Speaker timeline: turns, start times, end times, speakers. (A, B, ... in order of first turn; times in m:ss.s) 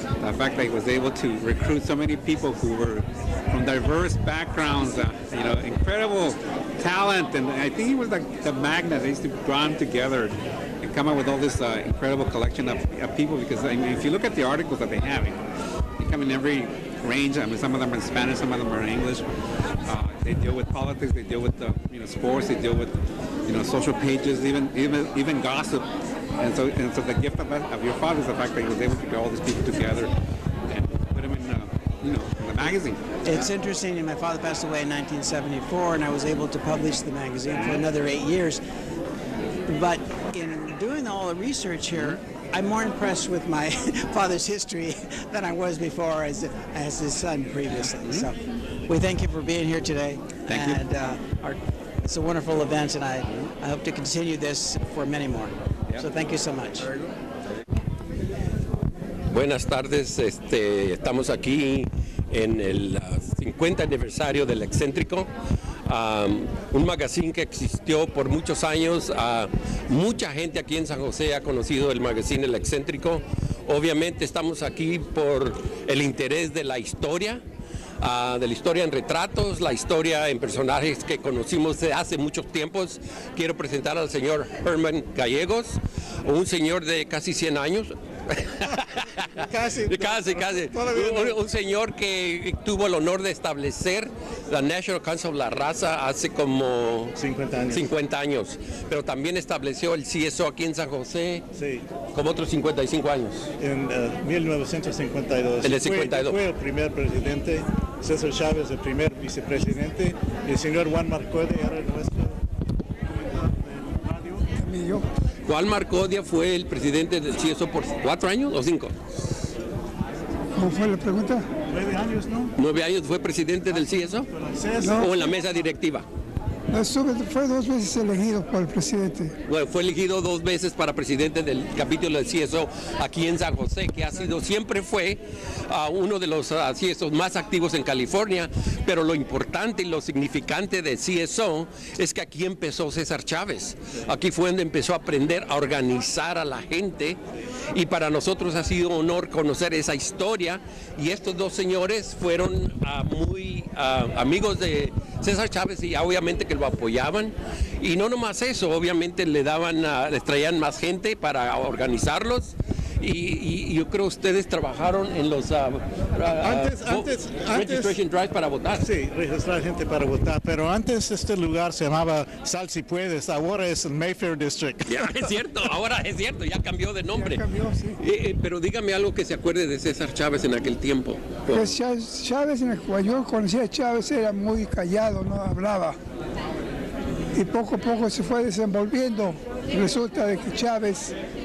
0:00.2-0:15.4 A
0:16.0-0:19.2 A
0:19.8-0:30.1 A
0:30.7-0:33.5 A
0:33.2-0:38.6 B
0:39.6-0:57.0 B
0:41.9-0:42.2 A
0:47.7-0:48.3 A
0:50.5-0:50.8 A
0:59.3-1:05.3 C
1:05.9-1:17.4 C
1:18.0-1:37.2 C
1:29.4-1:31.4 D
1:37.2-1:37.9 D
1:37.7-1:41.4 C
1:41.5-1:41.8 D
1:42.1-1:43.5 C
1:43.6-1:52.4 D
1:45.6-1:46.4 C
1:53.0-1:54.5 D
1:54.5-1:55.0 E
1:55.4-1:58.9 C
2:00.6-2:01.4 E
2:01.7-2:02.5 D
2:02.6-2:04.3 C
2:03.7-2:05.4 D
2:04.8-2:05.1 E
2:04.8-2:06.0 C
2:06.7-2:09.3 E
2:09.5-2:27.2 C
2:27.7-2:48.8 C
2:46.4-2:48.0 D
2:48.7-2:55.3 D
2:54.8-3:01.7 C
2:57.1-2:58.0 E
3:01.5-3:06.0 E
3:07.3-3:11.1 E